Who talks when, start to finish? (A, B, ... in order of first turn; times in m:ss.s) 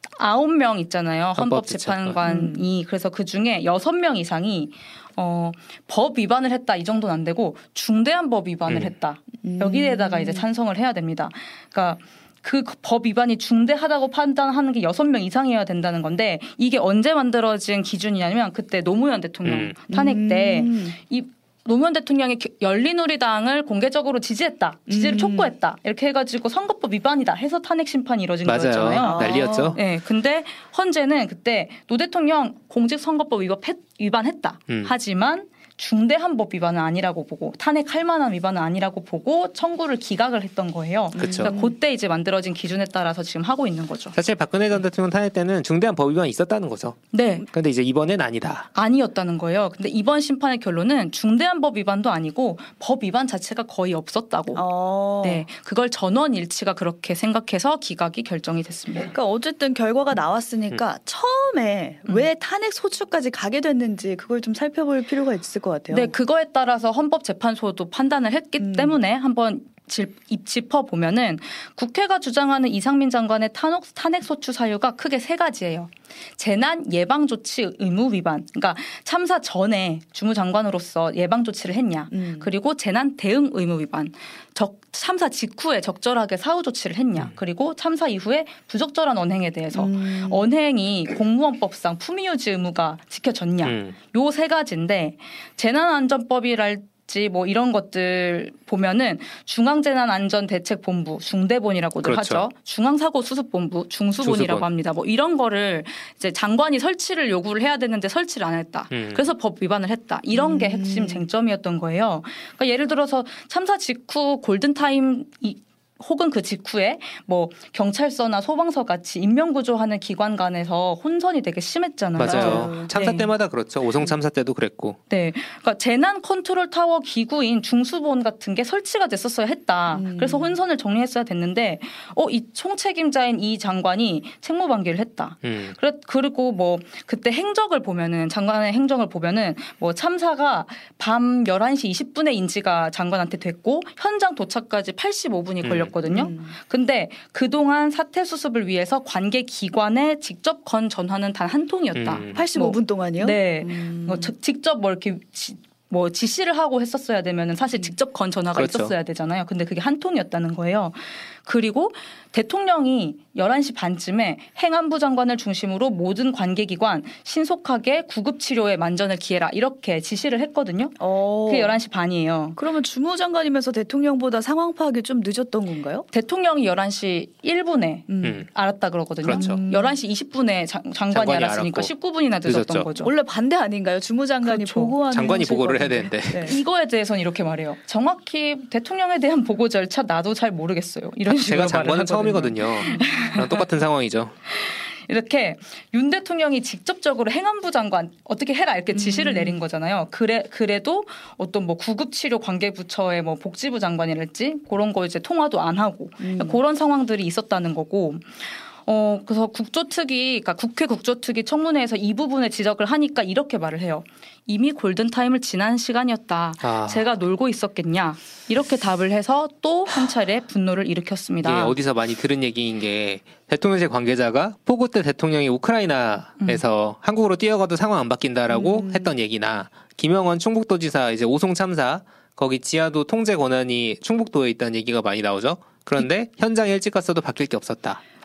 0:00.1-0:44.2 A
0:01.4-0:02.2 B
0:02.2-0:02.7 C
0:09.4-0:10.4 C
0:19.4-0:19.7 B
0:19.9-0:21.0 C
0:24.9-0:25.5 C
0:28.4-0:29.8 B
0:29.0-0:29.8 C
0:41.1-0:41.7 C
0:41.2-0:41.5 B
0:44.1-0:48.7 B
0:47.1-0:47.5 A
0:48.7-0:59.1 A
0:54.5-0:55.4 C
0:59.0-1:06.1 C
1:05.9-2:03.3 A
1:08.6-1:09.0 C
1:22.1-1:22.5 C
1:29.7-1:30.5 C
1:33.6-1:34.0 B
1:42.0-1:42.4 B
1:44.2-1:44.6 B
1:48.9-1:49.2 B
1:50.3-1:51.2 C
2:02.2-2:05.0 B
2:02.2-2:02.9 C
2:05.1-2:52.6 A
2:09.9-2:10.6 C
2:15.4-2:15.7 B
2:25.6-2:26.0 B
2:26.0-2:26.6 C
2:31.9-2:32.5 B
2:32.3-2:34.3 C
2:38.5-2:38.9 B
2:51.0-2:51.8 C
2:52.6-2:56.0 C
2:56.1-3:03.1 A
2:58.1-2:58.4 C
2:58.2-2:58.5 B
2:59.2-2:59.6 B
2:59.3-3:00.0 C
3:01.1-3:01.9 B
3:02.4-3:02.9 B
3:03.0-3:06.6 C
3:04.4-3:05.0 A
3:05.1-3:06.6 B
3:06.4-3:13.7 A
3:11.2-3:14.3 B
3:12.8-3:13.3 C
3:14.5-3:41.8 A
3:18.9-3:19.6 C
3:26.2-3:26.6 C
3:36.6-3:37.0 B
3:41.4-3:58.0 B
3:48.5-3:49.1 C